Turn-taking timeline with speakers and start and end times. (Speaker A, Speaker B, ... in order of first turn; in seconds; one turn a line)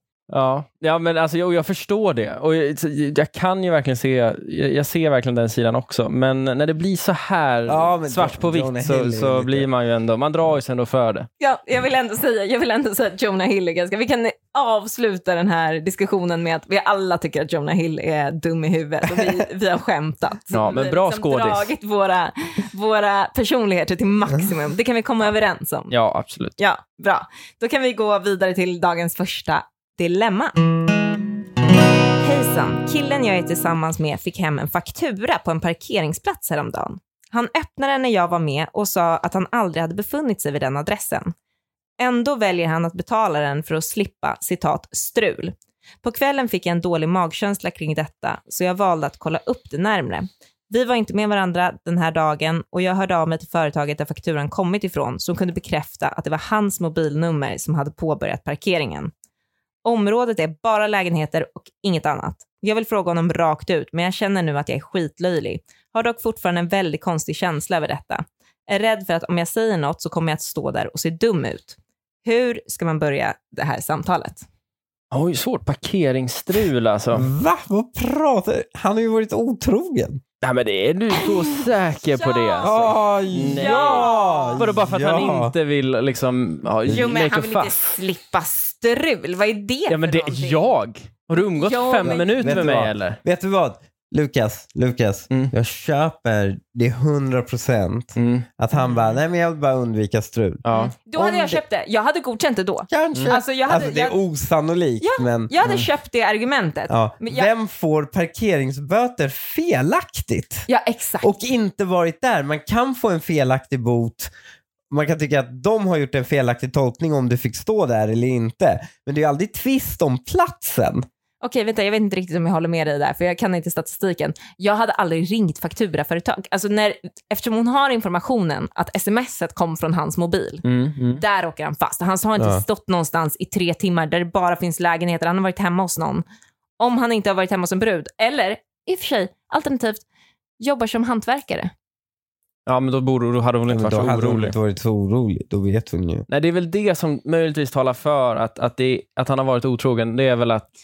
Speaker A: 0.3-11.3
Speaker B: 7.7-9.7
Speaker C: 11.4-25.9
Speaker A: 20.5-21.7
Speaker A: 25.9-26.5
Speaker C: 26.6-30.6
Speaker C: 32.2-41.3
Speaker C: 42.0-59.1
Speaker C: 59.8-74.4
Speaker A: 75.1-77.3
Speaker B: 77.1-80.2
Speaker A: 80.4-88.0
Speaker C: 81.2-82.9
Speaker B: 82.6-85.5
Speaker C: 83.4-84.6
Speaker C: 86.9-90.7
Speaker A: 89.9-93.2
Speaker C: 91.3-92.6
Speaker B: 92.0-100.6
Speaker A: 98.2-98.5
Speaker C: 98.8-99.1
Speaker A: 100.6-100.9
Speaker C: 100.7-104.2
Speaker B: 101.2-101.6
Speaker B: 102.9-105.8
Speaker A: 103.1-103.4
Speaker C: 105.0-107.5
Speaker B: 106.9-110.7
Speaker C: 110.7-111.3
Speaker B: 111.2-114.3
Speaker B: 114.9-121.0
Speaker C: 121.4-130.6
Speaker A: 130.6-131.2
Speaker C: 131.2-136.2
Speaker C: 136.8-140.0
Speaker C: 140.6-141.7
Speaker A: 142.7-144.5
Speaker B: 143.7-146.2
Speaker A: 146.3-150.7